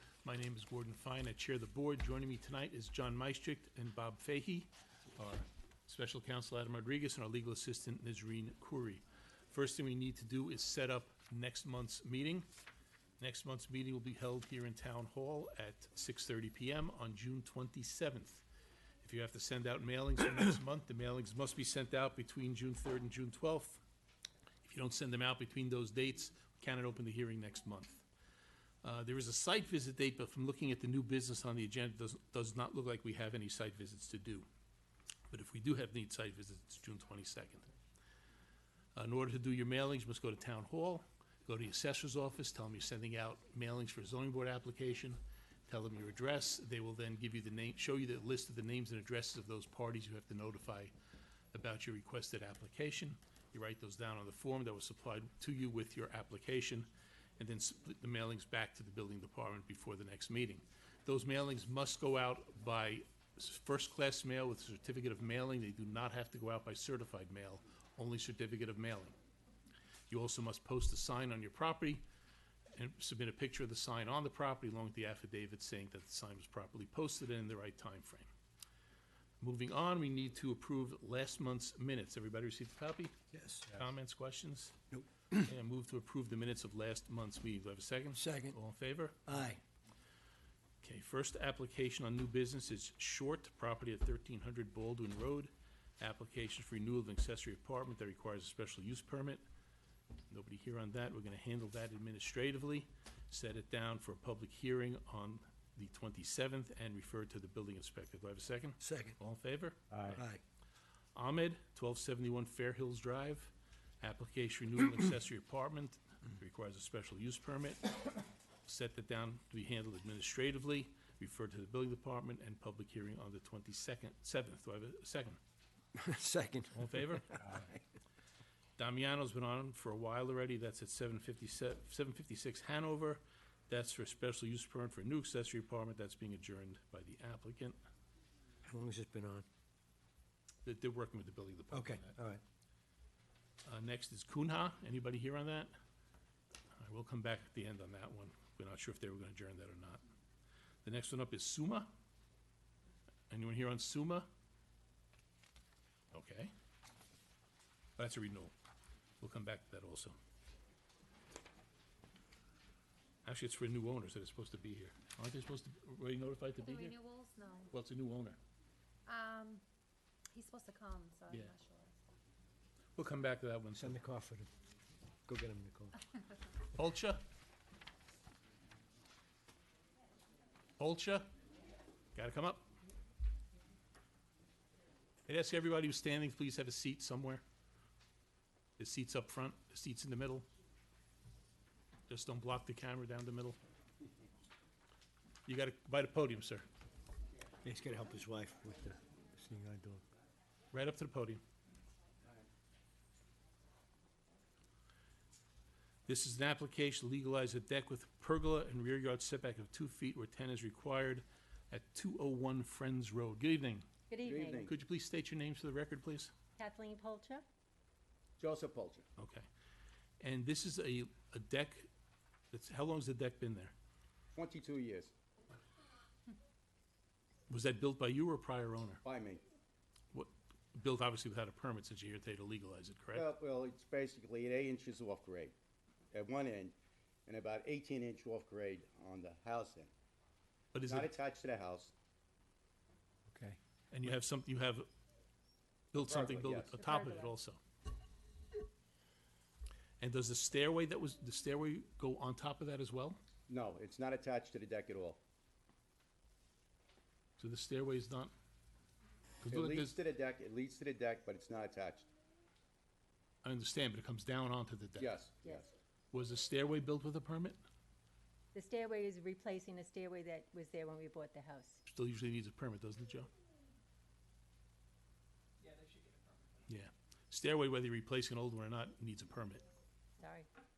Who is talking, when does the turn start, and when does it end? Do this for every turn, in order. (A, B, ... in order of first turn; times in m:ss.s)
0:00.2-0:12.5 A
0:13.2-0:18.4 A
0:19.0-0:23.8 A
0:24.6-0:28.0 A
0:28.8-0:34.4 A
0:35.3-0:37.7 A
0:38.9-0:50.9 A
0:51.5-1:09.1 A
1:10.1-1:12.0 A
1:12.7-1:18.3 A
1:19.4-1:23.1 A
1:23.3-1:23.7 B
1:23.7-1:24.8 A
1:24.9-1:25.5 B
1:25.4-1:29.5 A
1:28.2-1:28.6 B
1:29.3-1:29.6 B
1:30.8-1:39.4 A
1:40.3-1:50.2 A
1:48.8-1:49.2 B
1:50.1-1:50.4 B
1:51.1-2:05.4 A
2:05.9-2:07.8 B
2:06.7-2:07.7 A
2:08.8-2:17.8 A
2:18.6-2:19.4 B
2:20.6-2:22.2 A
2:21.7-2:22.4 B
2:23.6-2:25.7 A
2:26.7-2:30.0 A
2:30.8-2:31.9 A
2:33.3-2:34.3 A
2:36.1-2:36.5 A
2:38.0-2:38.5 A
2:39.2-2:40.2 A
2:43.2-2:47.0 A
2:46.6-2:47.7 C
2:47.7-2:48.4 A
2:49.0-2:49.6 C
2:50.3-2:52.0 C
2:53.0-2:54.0 A
2:53.8-2:54.5 B
2:55.3-2:56.0 B
2:56.7-2:57.2 A
3:00.8-3:01.3 A
3:02.1-3:02.7 A
3:05.2-3:07.4 A
3:08.8-3:10.4 A
3:12.1-3:13.6 A
3:15.4-3:16.6 A
3:17.6-3:20.0 B
3:20.7-3:21.4 A
3:26.0-3:33.9 A
3:34.1-3:34.7 D
3:34.2-3:34.7 E
3:34.6-3:36.3 A
3:36.6-3:37.4 D
3:38.4-3:39.1 E
3:39.2-3:39.4 A
3:40.2-3:41.9 A
3:42.5-3:43.7 A
3:44.3-3:45.1 E
3:47.5-3:49.0 A
3:49.0-3:49.4 E
3:50.1-3:53.3 A
3:53.1-3:55.5 E
3:56.1-3:56.7 E
3:57.2-3:59.9 E
4:00.7-4:01.1 A
4:00.9-4:01.9 E
4:03.3-4:03.6 B
4:03.9-4:04.9 A
4:05.9-4:07.6 A
4:05.9-4:06.8 E
4:06.8-4:07.3 D
4:10.0-4:13.2 A
4:13.5-4:15.2 E
4:17.4-4:18.3 A
4:19.4-4:20.0 A
4:19.5-4:22.1 E
4:23.4-4:25.2 A
4:25.0-4:25.7 E
4:25.4-4:25.7 D
4:26.1-4:27.6 A
4:28.5-4:31.8 D
4:31.8-4:33.3 A
4:36.7-4:39.6 A
4:40.2-4:40.5 D